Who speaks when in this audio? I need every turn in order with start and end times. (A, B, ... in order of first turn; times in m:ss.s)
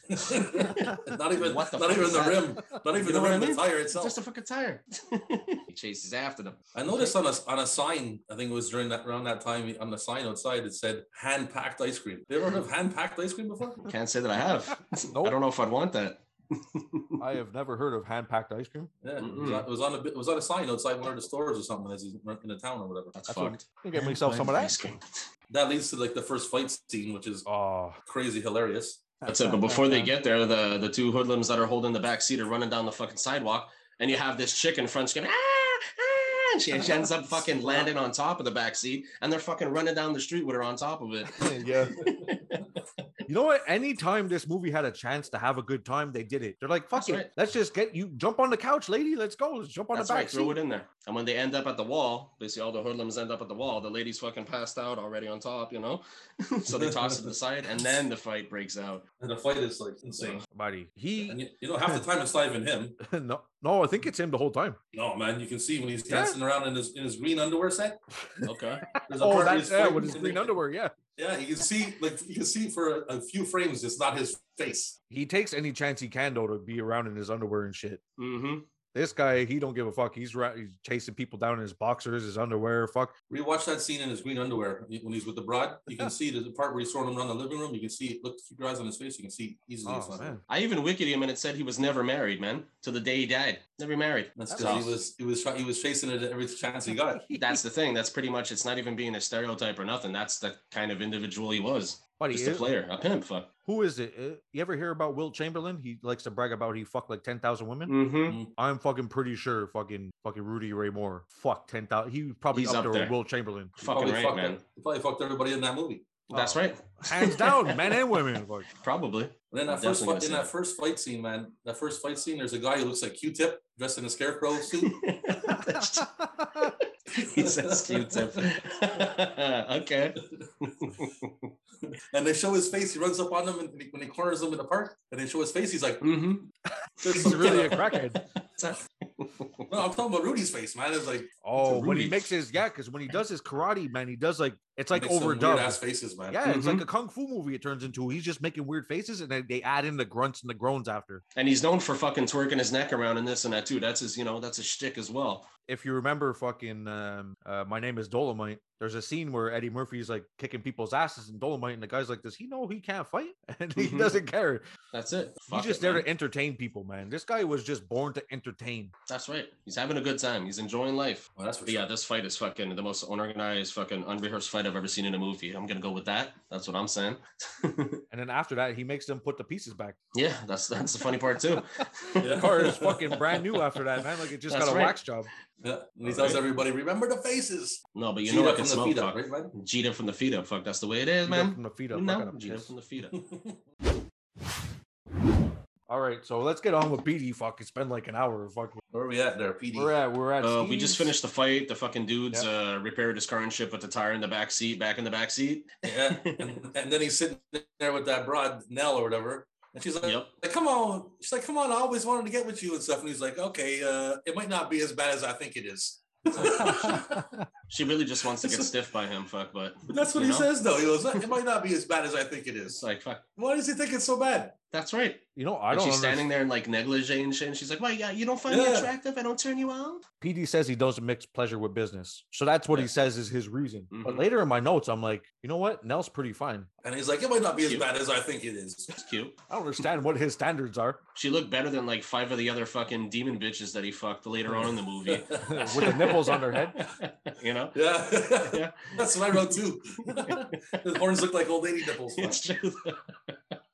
0:00.1-0:04.2 A
0:00.3-0:07.1 B
0:06.7-0:13.9 A
0:13.8-0:17.2 B
0:15.1-0:15.4 C
0:17.2-0:18.9 C
0:19.0-0:23.2 A
0:19.2-0:19.7 B
0:23.1-0:25.3 B
0:23.3-0:24.7 C
0:25.5-0:27.5 A
0:27.4-0:28.0 C
0:28.0-0:29.1 A
0:29.2-0:30.1 C
0:29.2-0:43.0 B
0:41.4-0:42.0 C
0:43.3-0:50.6 C
0:46.9-0:47.3 B
0:49.9-0:59.0 B
0:56.7-0:57.2 A
0:59.2-1:00.4 A
1:00.5-1:02.0 C
1:01.2-1:03.0 A
1:03.0-1:04.8 C
1:04.9-1:08.0 A
1:06.1-1:06.4 C
1:08.3-1:10.9 C
1:08.4-1:08.8 B
1:09.1-1:10.6 A
1:11.2-1:15.0 A
1:15.1-1:18.0 C
1:18.2-1:18.7 B
1:18.9-1:23.1 C
1:23.3-1:30.3 A
1:29.8-1:30.4 C
1:30.5-1:35.0 B
1:34.4-1:37.2 A
1:34.5-1:34.8 C
1:36.9-1:37.6 C
1:37.3-1:43.5 B
1:42.2-1:42.7 C
1:43.6-1:48.0 C
1:47.9-1:48.4 B
1:48.3-1:48.5 A
1:48.6-1:53.9 C
1:52.5-1:53.1 B
1:53.8-1:54.6 B
1:53.8-1:56.2 A
1:56.3-1:58.0 B
1:56.3-1:58.7 C
1:58.7-2:00.5 B
1:59.5-2:05.0 A
2:04.7-2:11.5 B
2:07.1-2:08.6 A
2:12.1-2:16.0 A
2:16.0-2:16.5 B
2:17.0-2:17.8 A
2:17.0-2:17.9 B
2:17.1-2:18.2 C
2:18.4-2:19.7 B
2:19.7-2:21.3 A
2:21.4-2:31.2 C
2:21.6-2:22.2 B
2:24.9-2:26.4 A
2:26.4-2:26.8 B
2:31.3-2:35.5 B
2:35.7-2:44.6 C
2:43.8-2:44.2 B
2:44.9-2:46.1 B
2:45.5-2:48.9 C
2:49.1-2:58.0 B
2:51.4-2:51.8 A
2:58.1-3:00.0 C
3:00.1-3:02.8 B
3:02.2-3:03.2 A
3:02.3-3:05.3 C
3:04.5-3:05.0 B
3:05.6-3:09.5 A
3:06.0-3:06.4 B
3:07.9-3:13.2 B
3:11.2-3:12.7 C
3:13.1-3:13.6 A
3:15.9-3:18.8 C
3:18.9-3:19.9 A
3:19.7-3:21.1 C
3:20.4-3:26.5 B
3:25.8-3:37.3 A
3:30.0-3:30.3 B
3:36.4-3:37.0 B
3:36.6-3:37.4 C
3:37.7-3:40.5 B
3:38.4-3:38.7 A
3:39.9-3:42.8 A
3:42.7-3:43.2 B
3:43.4-3:44.6 A
3:44.7-3:50.0 B
3:45.4-3:46.2 C
3:48.5-3:48.9 A
3:50.2-3:56.7 C
3:53.9-3:54.3 B
3:56.8-3:59.0 A
3:57.6-3:57.9 B
3:58.9-3:59.4 B
3:59.5-4:01.0 C
4:01.1-4:05.9 B
4:05.1-4:06.9 A
4:05.4-4:06.8 C
4:06.8-4:07.8 B
4:07.7-4:12.6 A
4:08.3-4:09.6 B
4:10.2-4:10.4 B
4:12.1-4:13.6 B